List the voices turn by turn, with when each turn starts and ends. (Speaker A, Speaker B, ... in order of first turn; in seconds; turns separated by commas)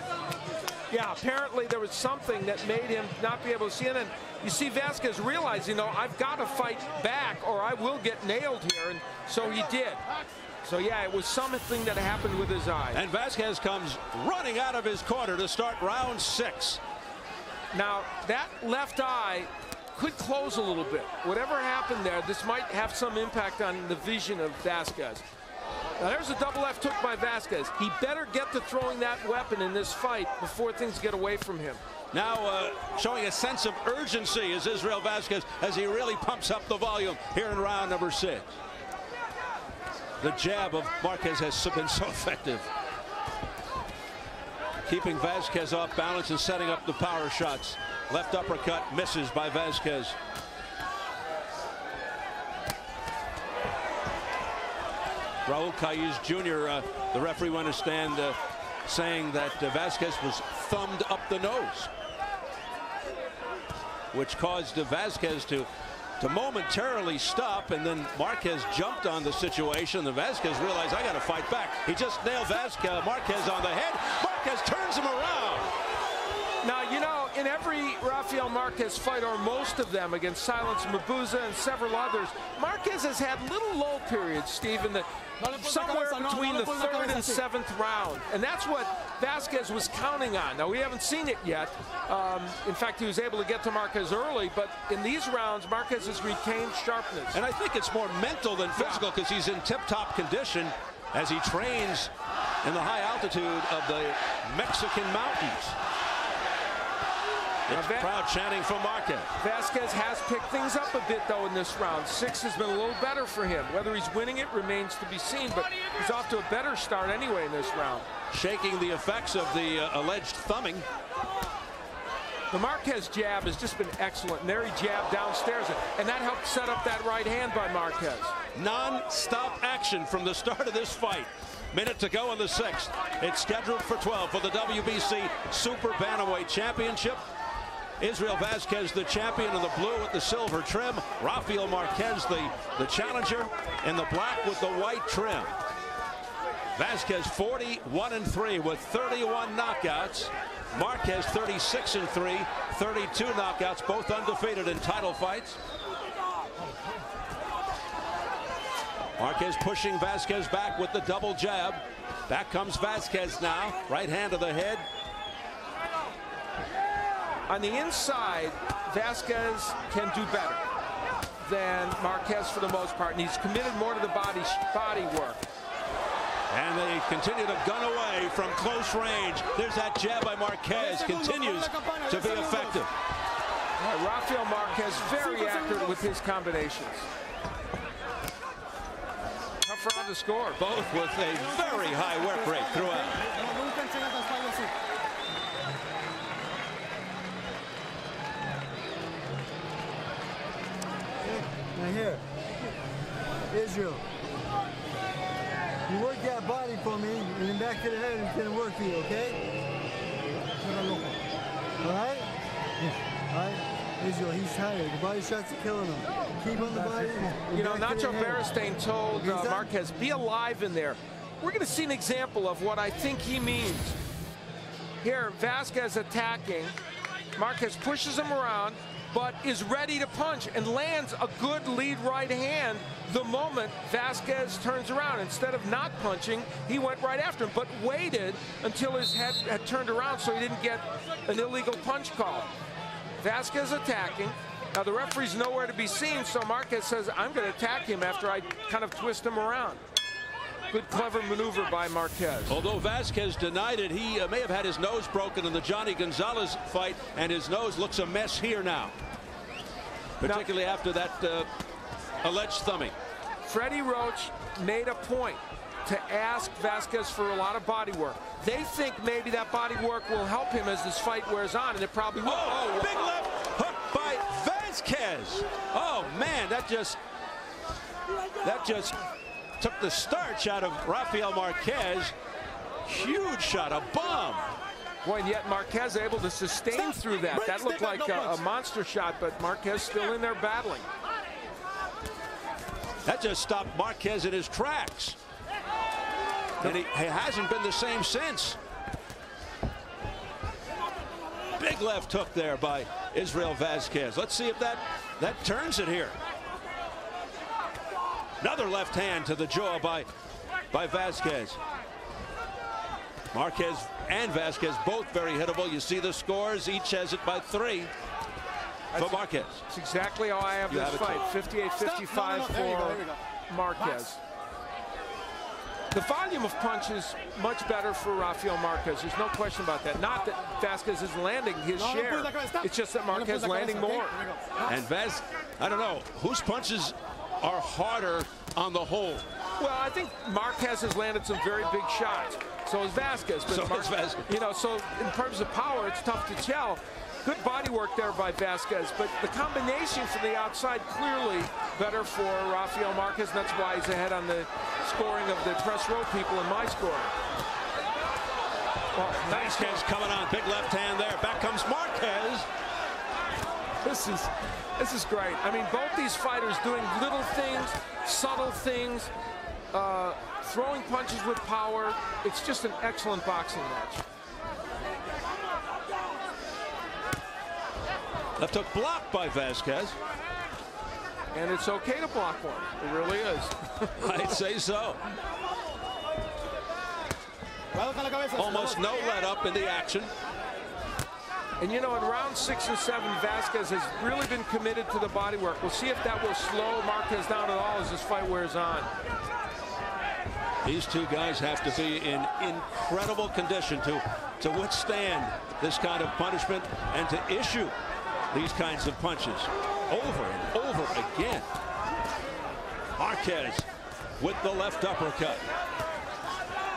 Speaker A: 0.9-10.0, Speaker A: 10.6-13.0, Speaker B: 12.9-16.8, Speaker A: 17.7-25.2, Speaker A: 26.0-31.8, Speaker B: 32.1-38.5, Speaker B: 40.2-42.7, Speaker B: 44.8-50.1, Speaker B: 55.5-61.9, Speaker B: 64.1-65.7, Speaker B: 66.2-75.7, Speaker A: 76.6-97.4, Speaker C: 85.4-87.4, Speaker B: 97.3-102.1, Speaker A: 98.7-99.0, Speaker B: 102.6-105.8, Speaker A: 107.7-108.1, Speaker B: 107.7-109.3, Speaker A: 109.4-118.1, Speaker B: 118.3-120.8, Speaker A: 122.5-128.3, Speaker B: 128.5-137.2, Speaker B: 138.0-145.5, Speaker B: 146.8-155.6, Speaker B: 159.2-164.8, Speaker A: 167.5-170.6, Speaker A: 171.4-175.4, Speaker B: 176.5-182.9, Speaker C: 180.7-182.8, Speaker A: 183.8-187.1, Speaker C: 184.8-186.1, Speaker A: 189.6-190.6, Speaker B: 190.6-193.2, Speaker C: 191.3-194.7, Speaker D: 201.2-202.2, Speaker D: 203.5-204.0, Speaker D: 205.9-209.4, Speaker C: 210.6-211.1, Speaker D: 211.8-212.3, Speaker D: 213.3-218.5, Speaker A: 217.5-224.0, Speaker D: 219.1-219.7, Speaker A: 225.0-226.8, Speaker A: 227.3-242.5, Speaker A: 243.2-249.8, Speaker A: 250.7-252.6, Speaker B: 252.5-258.9, Speaker B: 260.2-261.5, Speaker A: 260.2-260.5, Speaker B: 262.2-262.9, Speaker A: 263.4-272.9, Speaker B: 272.2-277.0, Speaker B: 278.4-279.0, Speaker B: 279.6-282.1, Speaker B: 282.8-284.5, Speaker A: 285.0-290.9, Speaker C: 286.8-288.4, Speaker B: 293.0-295.2, Speaker B: 296.6-298.6, Speaker B: 301.6-306.1, Speaker B: 308.4-310.1, Speaker B: 310.7-311.6, Speaker B: 313.3-317.9, Speaker A: 318.9-324.2, Speaker B: 318.9-319.6, Speaker B: 320.7-321.2, Speaker C: 321.8-323.2, Speaker A: 325.9-334.2, Speaker C: 331.8-334.7, Speaker B: 334.6-339.2, Speaker A: 339.6-357.1, Speaker B: 343.5-344.2, Speaker A: 358.9-359.8, Speaker B: 359.2-362.4, Speaker A: 363.8-369.1, Speaker A: 369.7-374.0, Speaker B: 378.4-379.9, Speaker A: 381.3-384.3, Speaker B: 384.0-385.0, Speaker C: 387.7-388.9, Speaker B: 388.3-390.1, Speaker A: 391.6-398.9, Speaker B: 400.6-407.7, Speaker B: 408.3-411.4, Speaker B: 413.0-413.6, Speaker B: 414.2-415.4